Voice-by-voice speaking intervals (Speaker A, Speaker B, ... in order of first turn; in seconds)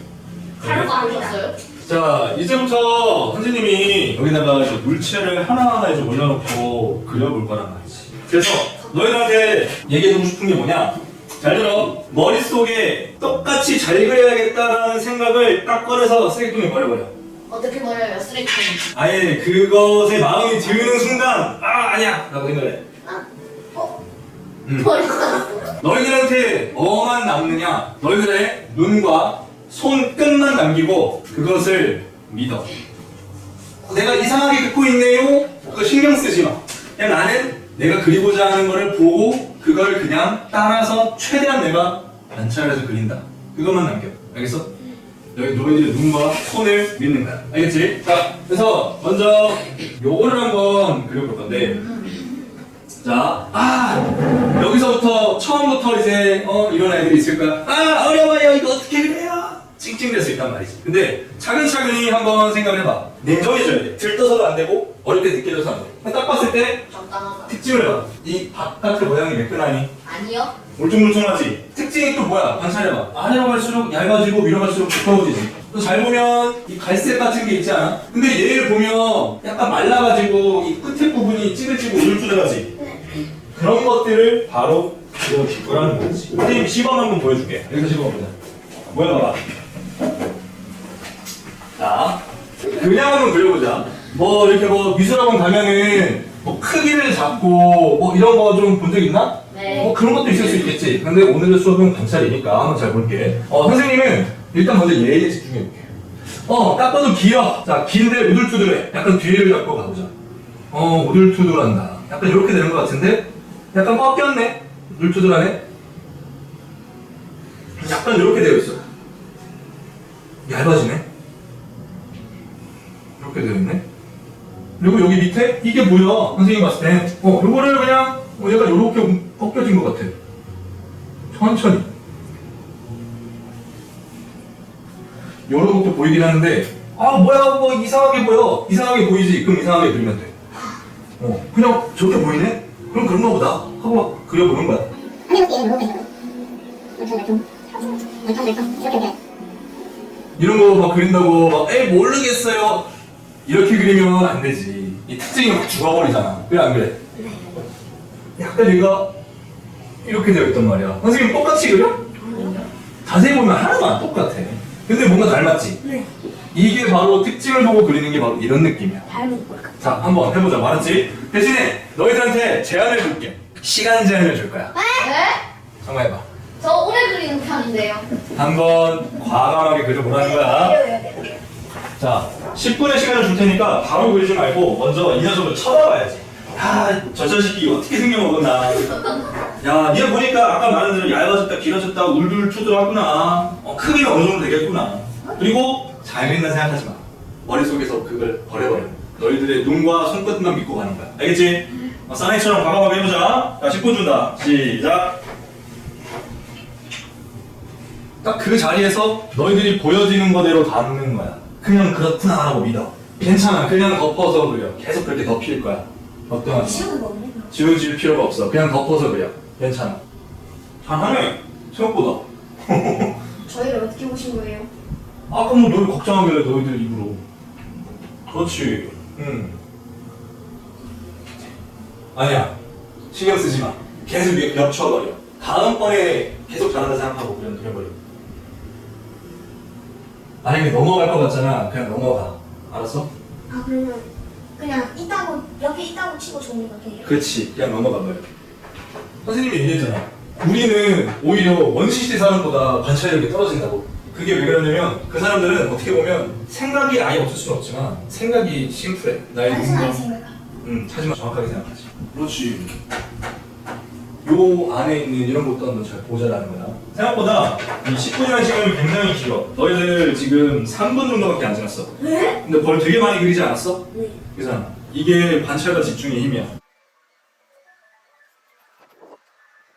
Speaker A: 0.6-1.6, 17.5-18.9, 24.8-25.7, 51.5-52.3, 66.9-67.6, 70.0-70.5, 99.5-100.3, 174.9-175.4, 176.6-178.1
Speaker B: 0.6-0.9, 1.8-17.1, 18.9-22.9, 24.7-24.9, 25.7-32.7, 33.8-44.7, 45.4-51.8, 53.0-66.9, 67.5-69.9, 70.8-82.7, 83.5-88.3, 88.9-89.4, 91.8-105.9, 106.5-110.1, 110.7-115.6, 117.8-118.8, 120.5-121.0, 123.2-123.8, 124.8-130.2, 131.3-131.9, 135.5-140.3, 141.2-144.9, 150.4-152.9, 153.4-157.0, 158.4-159.2, 160.0-162.1, 163.0-165.8, 166.5-169.1, 169.8-174.8, 175.8-176.2, 178.3-180.8, 182.0-189.0, 189.6-205.2, 208.2-216.9, 217.5-220.0, 220.8-223.2, 225.3-227.2, 228.3-229.6, 232.2-232.6, 233.1-237.9, 240.4-243.1, 247.0-248.2, 249.2-260.0, 260.6-262.8, 264.2-276.5
Speaker C: 0.8-1.4, 145.3-145.9, 147.0-147.4, 148.2-149.1, 157.2-157.5, 162.2-162.6, 169.1-169.7, 174.8-175.1, 180.2-181.4, 216.5-217.5, 223.5-224.7, 243.5-247.2, 259.4-260.3, 272.0-272.4